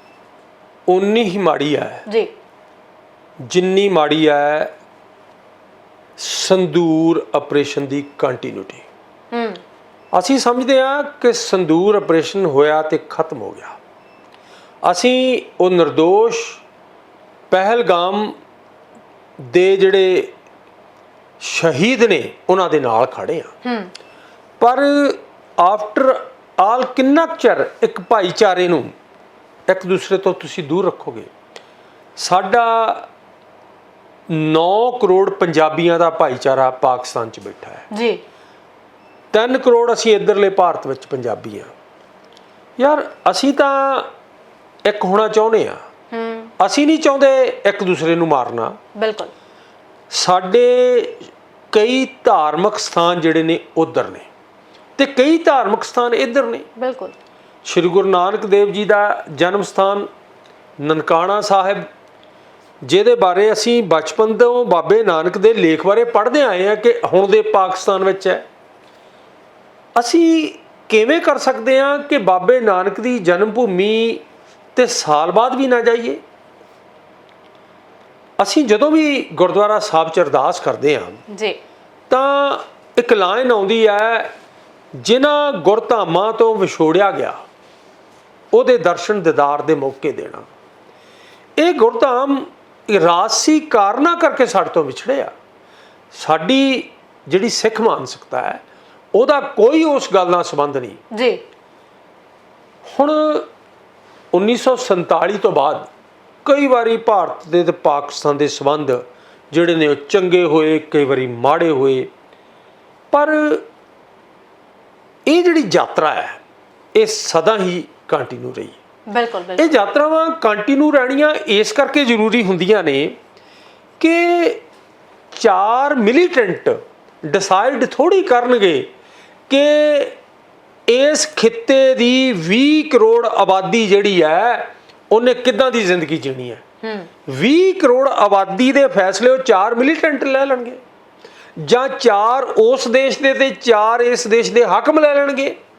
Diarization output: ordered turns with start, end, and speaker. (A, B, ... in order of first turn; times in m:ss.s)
0:00.9-0:02.0 A
0:02.0-0:02.3 B
0:03.4-0:04.7 A
0:06.2-0:08.8 A
0:09.3-0:09.6 B
0:10.1-0:13.8 A
0:14.8-0:16.6 A
0:17.5-0:18.4 A
0:19.4-0:20.3 A
0:21.4-0:23.5 A
0:23.6-0:23.9 B
0:24.6-0:28.9 A
0:29.7-0:31.3 A
0:32.2-0:33.1 A
0:34.3-0:37.9 A
0:37.9-0:38.2 B
0:39.3-0:41.7 A
0:42.8-0:44.1 A
0:44.8-0:45.8 A
0:46.1-0:46.5 B
0:46.6-0:48.8 A
0:48.9-0:49.3 B
0:50.1-0:54.3 A
0:55.0-0:56.7 A
0:56.8-0:57.1 B
0:57.6-1:00.1 A
1:00.8-1:01.9 A
1:02.8-1:08.4 A
1:09.9-1:14.2 A
1:14.7-1:16.2 A
1:18.4-1:21.2 A
1:21.3-1:21.6 B
1:22.1-1:24.3 A
1:24.9-1:27.4 A
1:28.5-1:30.5 A
1:31.6-1:35.3 A
1:36.1-1:38.6 A
1:39.1-1:41.0 A
1:41.1-1:41.4 B
1:42.8-1:43.5 A
1:44.3-1:45.9 A
1:46.4-1:52.1 A
1:53.1-1:53.6 A
1:55.2-1:56.4 A
1:56.9-1:58.8 A
1:59.1-1:59.8 B
1:59.6-2:03.2 A
2:04.0-2:04.6 A
2:05.3-2:08.9 A
2:09.5-2:10.2 A
2:10.9-2:16.6 A
2:16.8-2:17.1 B
2:17.2-2:20.8 A
2:21.6-2:25.6 A